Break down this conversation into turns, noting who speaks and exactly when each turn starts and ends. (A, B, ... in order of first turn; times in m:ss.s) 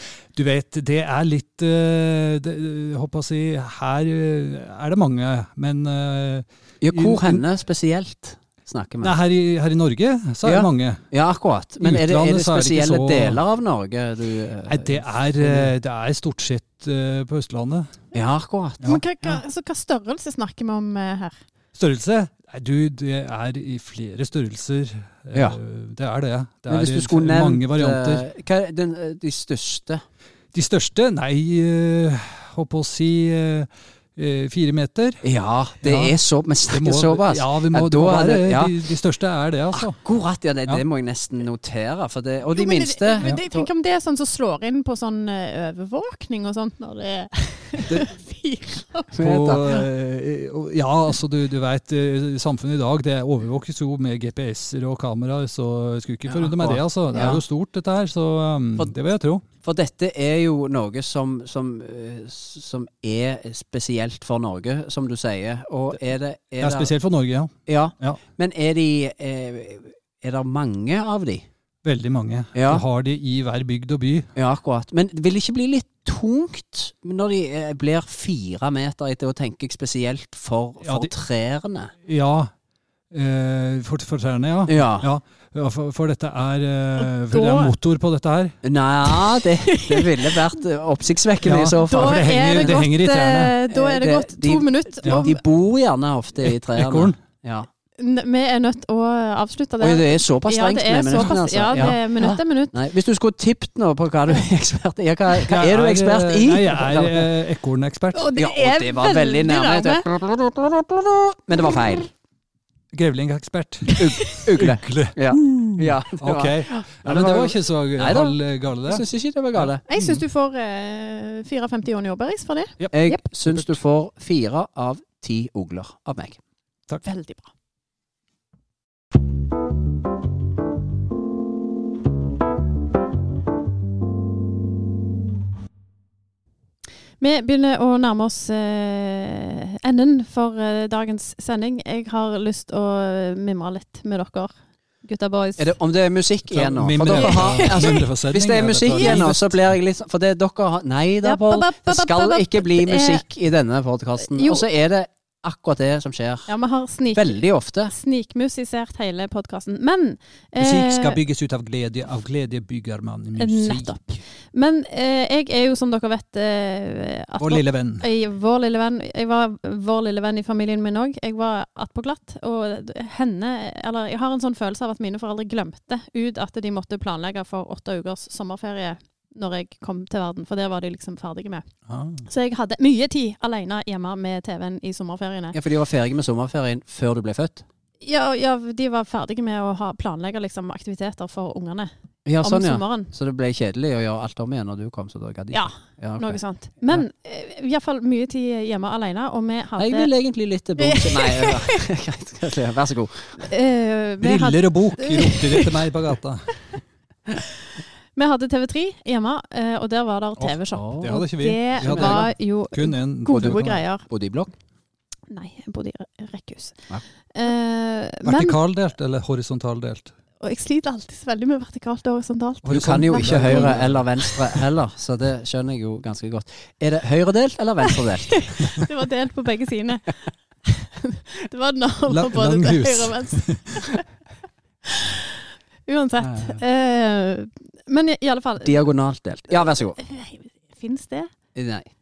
0:00.3-0:07.4 A
0:06.8-0:09.2 B
0:09.0-0:11.0 A
0:10.4-0:15.7 B
0:11.8-0:13.4 A
0:14.6-0:17.9 A
0:18.1-0:18.8 B
0:18.8-0:19.4 A
0:18.8-0:21.4 C
0:21.7-0:28.2 A
0:26.7-0:30.0 B
0:30.5-0:35.2 A
0:35.2-0:38.9 B
0:35.8-0:40.0 A
0:39.7-0:43.7 B
0:42.5-0:49.1 C
0:49.1-0:49.8 B
0:49.2-0:59.4 A
0:56.2-0:57.4 B
0:59.6-1:06.9 B
1:06.6-1:08.2 A
1:07.7-1:11.4 B
1:11.8-1:14.3 A
1:12.5-1:12.8 B
1:14.4-1:21.9 B
1:20.8-1:21.1 A
1:22.0-1:22.5 A
1:23.1-1:28.6 A
1:24.7-1:25.1 B
1:27.0-1:27.8 C
1:28.6-1:32.9 B
1:29.3-1:30.3 C
1:31.4-1:33.5 A
1:31.8-1:35.4 C
1:33.7-1:37.7 B
1:35.0-1:35.3 A
1:36.4-1:37.2 A
1:38.0-1:42.8 C
1:39.8-1:47.3 B
1:45.5-1:48.3 A
1:48.1-1:50.1 C
1:48.4-1:52.1 B
1:52.9-2:00.2 A
1:54.0-1:59.8 B
1:54.2-1:54.4 C
1:59.9-2:03.2 C
2:02.8-2:03.8 A
2:02.9-2:06.4 B
2:07.0-2:07.5 C
2:17.2-2:25.8 C
2:25.6-2:36.5 B
2:26.5-2:29.6 A
2:27.0-2:28.0 C
2:31.2-2:33.2 C
2:34.3-2:34.6 C
2:36.5-2:41.2 C
2:37.1-2:37.9 B
2:40.6-2:44.0 A
2:43.4-3:01.6 C
2:47.4-2:48.1 A
3:01.9-3:02.2 A
3:02.2-3:05.6 C
3:05.5-3:07.6 B
3:08.0-3:13.1 C
3:12.2-3:17.0 B
3:15.5-3:20.1 C
3:19.8-3:23.5 B
3:20.8-3:21.7 C
3:23.4-3:25.8 C
3:24.2-3:26.6 A
3:28.1-3:34.0 C
3:30.4-3:33.8 A
3:30.7-3:31.1 B
3:31.7-3:32.4 B
3:33.3-3:34.5 B
3:35.3-3:36.8 C
3:37.3-3:38.6 C
3:38.2-3:40.1 A
3:40.4-3:43.7 C
3:42.6-3:44.4 A
3:42.7-3:48.7 B
3:48.3-3:54.1 C
3:52.1-3:53.7 A
3:54.8-3:55.2 C
3:55.8-3:58.9 C
3:56.2-3:56.6 B
3:58.6-4:00.0 B
3:59.5-4:01.3 C
4:01.5-4:01.9 B